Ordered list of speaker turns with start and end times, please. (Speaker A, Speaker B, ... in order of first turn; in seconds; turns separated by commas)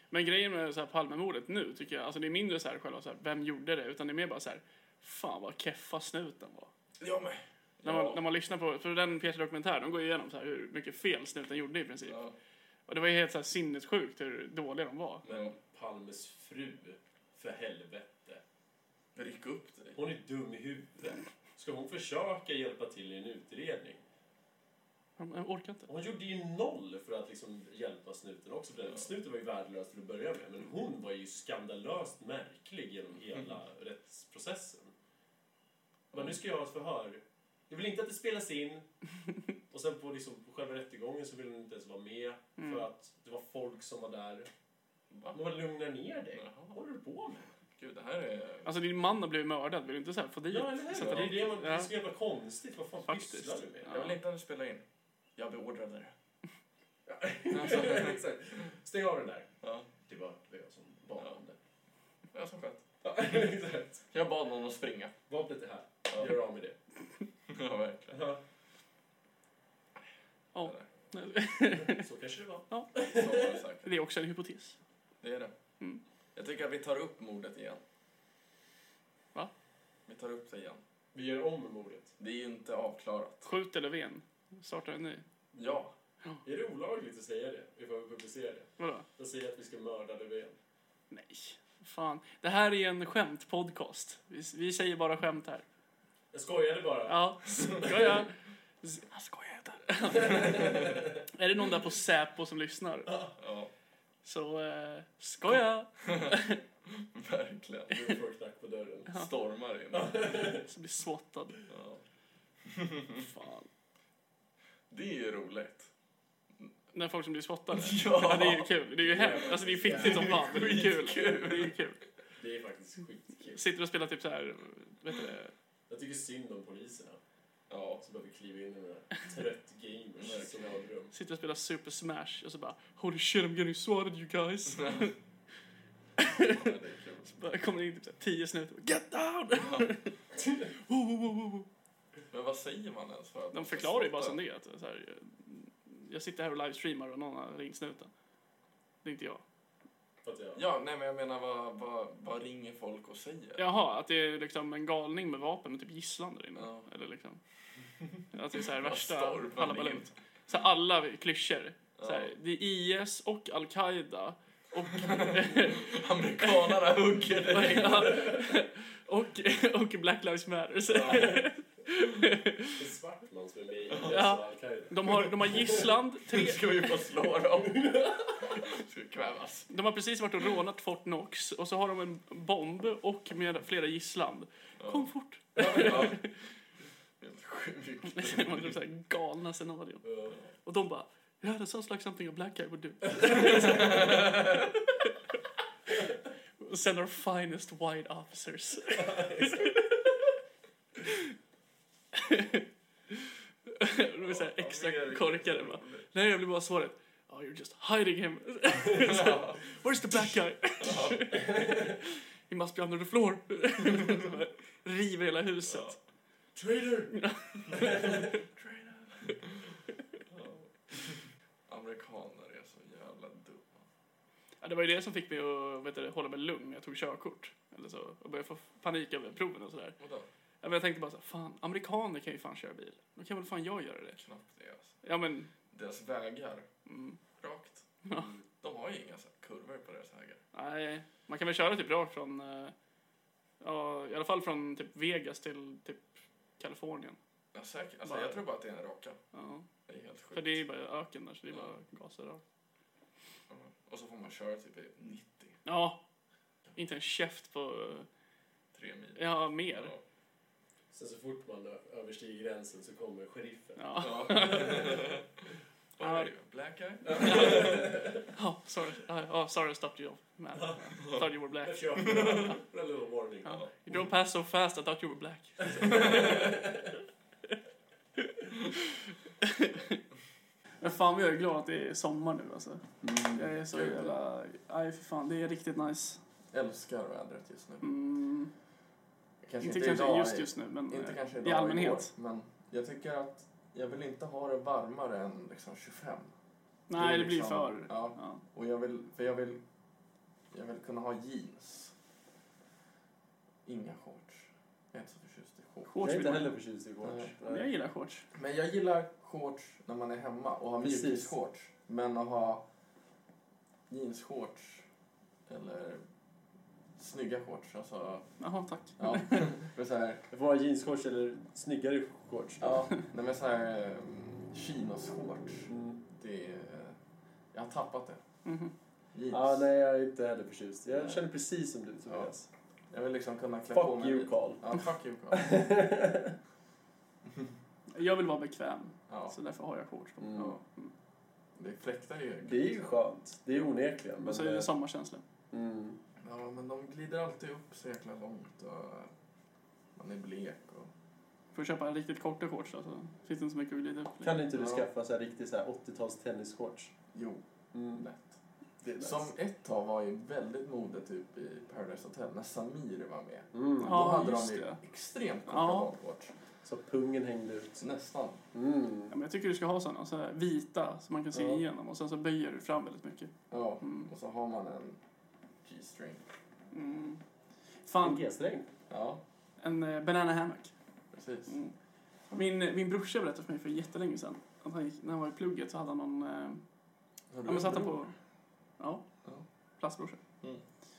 Speaker A: 0.1-6.7, Speaker B: 7.0-8.2, Speaker A: 7.8-12.2, Speaker B: 12.1-12.4, Speaker A: 12.9-15.3, Speaker B: 15.2-15.6, Speaker C: 15.2-18.4, Speaker B: 19.2-20.0, Speaker C: 19.9-24.0, Speaker A: 25.2-25.9, Speaker C: 25.9-34.9, Speaker B: 36.1-36.4, Speaker C: 36.1-38.9, Speaker C: 39.7-44.5, Speaker A: 42.6-42.9, Speaker B: 45.1-45.4, Speaker C: 45.3-47.5, Speaker B: 46.3-46.8, Speaker B: 47.8-48.7, Speaker A: 48.6-51.9, Speaker C: 50.5-54.0, Speaker B: 50.9-51.4, Speaker A: 53.0-54.1, Speaker B: 53.9-54.8, Speaker B: 55.4-56.1, Speaker C: 57.1-59.5, Speaker B: 57.5-58.2, Speaker B: 59.6-59.9, Speaker C: 60.0-61.6, Speaker B: 62.3-63.5, Speaker C: 63.0-64.1, Speaker B: 64.1-65.2, Speaker C: 65.3-66.8, Speaker B: 66.1-66.4, Speaker B: 67.5-68.3, Speaker C: 68.1-68.4, Speaker A: 70.5-72.1, Speaker C: 71.8-73.6, Speaker A: 72.7-73.0, Speaker B: 73.1-73.9, Speaker A: 73.8-74.8, Speaker B: 75.2-75.5, Speaker B: 76.3-77.8, Speaker B: 80.1-80.8, Speaker C: 81.1-82.1, Speaker B: 82.2-83.5, Speaker A: 83.5-85.2, Speaker B: 85.5-85.9, Speaker C: 86.4-90.6, Speaker A: 88.8-89.1, Speaker A: 91.1-95.7, Speaker C: 96.3-97.9, Speaker A: 97.1-103.3, Speaker C: 100.1-101.2, Speaker B: 103.4-103.7, Speaker A: 104.2-106.6, Speaker B: 106.0-108.2, Speaker C: 107.9-109.2, Speaker B: 109.1-110.5, Speaker C: 109.9-110.7, Speaker A: 110.5-111.6, Speaker B: 111.7-112.0, Speaker B: 112.7-113.2, Speaker A: 113.2-113.7, Speaker B: 114.9-115.9, Speaker A: 116.9-122.0, Speaker B: 117.7-118.7, Speaker C: 119.0-120.7, Speaker B: 119.8-121.8, Speaker C: 122.4-123.7, Speaker A: 123.5-125.5, Speaker C: 125.9-127.2, Speaker B: 127.7-128.0, Speaker C: 128.0-131.1, Speaker B: 130.2-130.7, Speaker A: 131.1-135.2, Speaker B: 134.8-135.1, Speaker A: 136.2-141.7, Speaker B: 136.2-137.3, Speaker B: 142.3-144.4, Speaker A: 143.5-148.1, Speaker A: 149.0-149.4, Speaker C: 150.2-150.6, Speaker B: 150.6-153.7, Speaker A: 153.6-157.4, Speaker B: 156.6-156.9, Speaker A: 158.3-166.8, Speaker B: 158.7-160.1, Speaker B: 162.0-162.3, Speaker B: 164.9-168.4, Speaker A: 167.5-172.8, Speaker C: 170.9-171.5, Speaker C: 172.8-175.9, Speaker B: 173.9-174.3, Speaker A: 174.1-176.9, Speaker B: 176.2-179.7, Speaker C: 177.6-178.3, Speaker A: 179.7-186.3, Speaker B: 184.8-186.3, Speaker B: 187.2-188.8, Speaker A: 188.1-190.0, Speaker C: 190.0-190.4, Speaker A: 190.6-194.6, Speaker B: 193.4-194.7, Speaker A: 196.6-199.9, Speaker C: 199.0-199.7, Speaker A: 201.0-201.3, Speaker A: 202.1-202.7, Speaker A: 203.7-216.0, Speaker B: 204.2-206.1, Speaker B: 208.9-209.6, Speaker B: 210.8-211.4, Speaker C: 211.6-211.8, Speaker B: 215.7-216.0, Speaker C: 216.6-217.1, Speaker A: 217.1-218.3, Speaker B: 217.7-223.8, Speaker C: 217.8-218.1, Speaker A: 224.6-230.0, Speaker B: 230.0-230.3, Speaker A: 230.6-234.2, Speaker B: 234.2-234.9, Speaker A: 235.0-235.5, Speaker B: 235.7-236.7, Speaker A: 236.9-237.2, Speaker B: 237.4-237.9, Speaker B: 238.6-240.4, Speaker A: 240.5-242.7, Speaker A: 243.6-247.2, Speaker B: 247.5-249.2, Speaker A: 248.1-248.4, Speaker A: 249.3-249.7, Speaker B: 249.9-250.6, Speaker A: 250.3-252.4, Speaker B: 253.5-255.6, Speaker A: 255.7-256.0, Speaker A: 256.8-258.1, Speaker B: 258.7-260.0, Speaker A: 259.2-259.9, Speaker C: 260.9-265.0, Speaker A: 263.8-265.1, Speaker B: 264.0-265.2, Speaker B: 266.0-268.1, Speaker A: 266.0-266.3, Speaker C: 267.1-268.2, Speaker A: 267.1-272.5, Speaker C: 270.6-270.8, Speaker B: 271.0-271.3, Speaker C: 271.6-273.7, Speaker B: 272.0-272.5, Speaker A: 273.4-276.6, Speaker C: 275.6-276.8, Speaker B: 275.8-276.6, Speaker A: 279.4-280.0, Speaker A: 280.8-286.2, Speaker C: 283.0-283.5, Speaker B: 283.7-284.2, Speaker B: 286.5-287.9, Speaker A: 287.8-288.5, Speaker B: 289.4-296.3, Speaker A: 289.6-292.1, Speaker A: 296.9-298.4, Speaker B: 296.9-299.6, Speaker B: 300.5-301.9, Speaker B: 303.7-305.9, Speaker A: 305.9-306.6, Speaker C: 306.0-307.7, Speaker B: 307.0-307.3, Speaker A: 307.4-308.3, Speaker B: 308.3-312.6, Speaker C: 310.8-311.3, Speaker B: 313.9-314.8, Speaker B: 315.5-316.0, Speaker B: 317.0-318.3, Speaker A: 318.4-319.5, Speaker B: 319.0-320.2, Speaker C: 320.3-322.8, Speaker B: 322.6-327.0, Speaker C: 325.7-326.0, Speaker B: 327.5-328.2, Speaker A: 328.4-328.7, Speaker B: 329.1-329.7, Speaker C: 329.3-332.5, Speaker B: 332.9-335.6, Speaker C: 333.7-334.6, Speaker C: 335.3-336.4, Speaker A: 337.9-340.9, Speaker B: 339.1-339.4, Speaker C: 340.2-340.6, Speaker B: 341.6-342.8, Speaker C: 342.4-344.7, Speaker A: 344.2-345.2, Speaker C: 345.5-346.0, Speaker B: 346.2-349.1, Speaker B: 349.9-350.9, Speaker A: 351.5-354.4, Speaker C: 354.2-356.9, Speaker B: 354.5-354.9, Speaker B: 357.1-358.4, Speaker C: 357.7-358.0, Speaker C: 358.8-359.3, Speaker B: 359.0-366.3, Speaker C: 363.5-364.1, Speaker A: 363.8-364.8, Speaker A: 365.5-365.9, Speaker C: 366.6-367.8, Speaker B: 367.8-368.4, Speaker C: 368.5-369.1, Speaker A: 369.1-373.3, Speaker C: 371.3-371.6, Speaker B: 373.5-375.0, Speaker A: 373.8-374.1, Speaker B: 375.6-376.2, Speaker A: 376.7-377.2, Speaker A: 377.9-378.2, Speaker C: 378.0-378.7, Speaker B: 378.9-379.2, Speaker A: 379.6-380.7, Speaker B: 381.1-381.6, Speaker A: 381.5-381.7, Speaker A: 382.3-386.6, Speaker B: 387.3-388.0, Speaker A: 387.4-388.1, Speaker A: 389.8-390.2